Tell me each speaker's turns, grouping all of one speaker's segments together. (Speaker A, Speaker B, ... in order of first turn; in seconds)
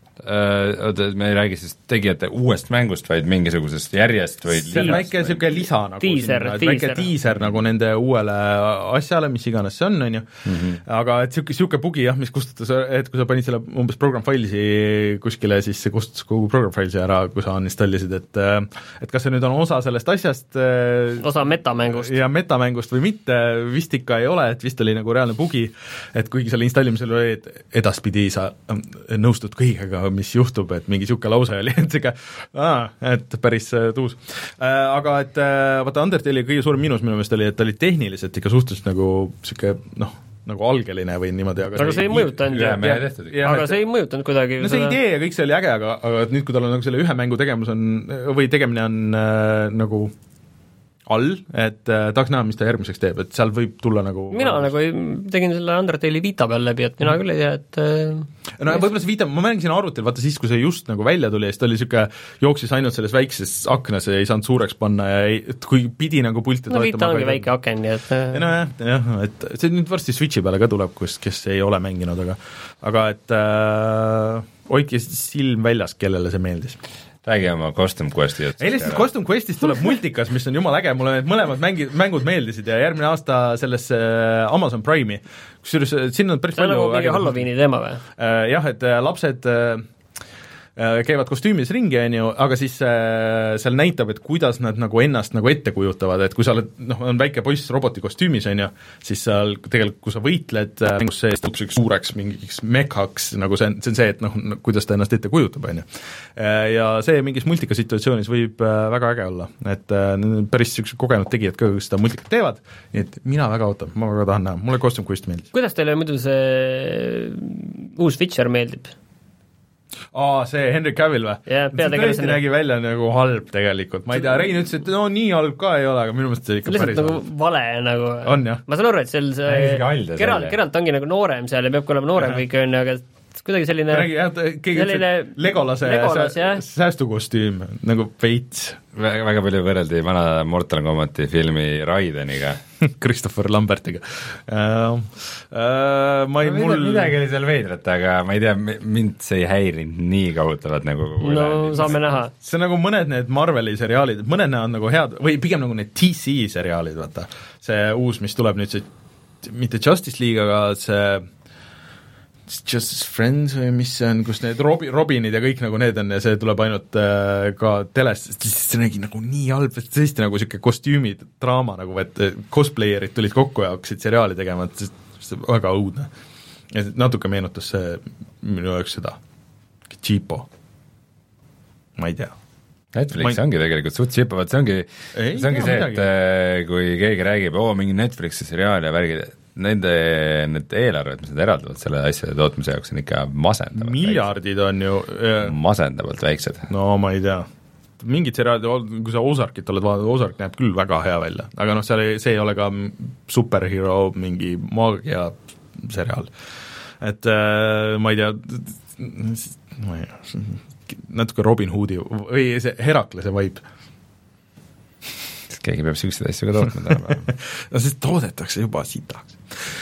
Speaker A: 0.2-5.4, 10.4-10.8, 42.1-43.5, 77.2-79.1, 129.4-130.6, 138.9-142.6, 146.4-152.0, 182.9-194.3, 195.4-196.7, 215.5-217.2
Speaker B: 4.6-10.2, 10.8-21.4, 21.9-43.8, 44.6-50.1, 51.1-54.7, 58.6-67.5, 68.3-76.8, 78.6-87.5, 88.2-89.9, 90.8-105.8, 106.4-115.5, 120.1-127.2, 128.2-128.6, 133.9-138.8, 142.8-147.1, 152.3-158.9, 159.4-161.3, 162.5-176.1, 176.7-179.2, 179.9-180.5, 182.0-182.3, 185.1-186.1, 193.8-195.5, 196.7-197.4, 198.0-206.3, 207.0-213.6, 217.2-219.4
Speaker C: 6.0-7.1, 21.2-22.1, 41.8-45.0, 54.3-58.3, 66.7-68.5, 86.5-88.0, 115.5-118.9, 121.5-122.4, 126.7-134.1, 134.7-136.6, 151.2-152.3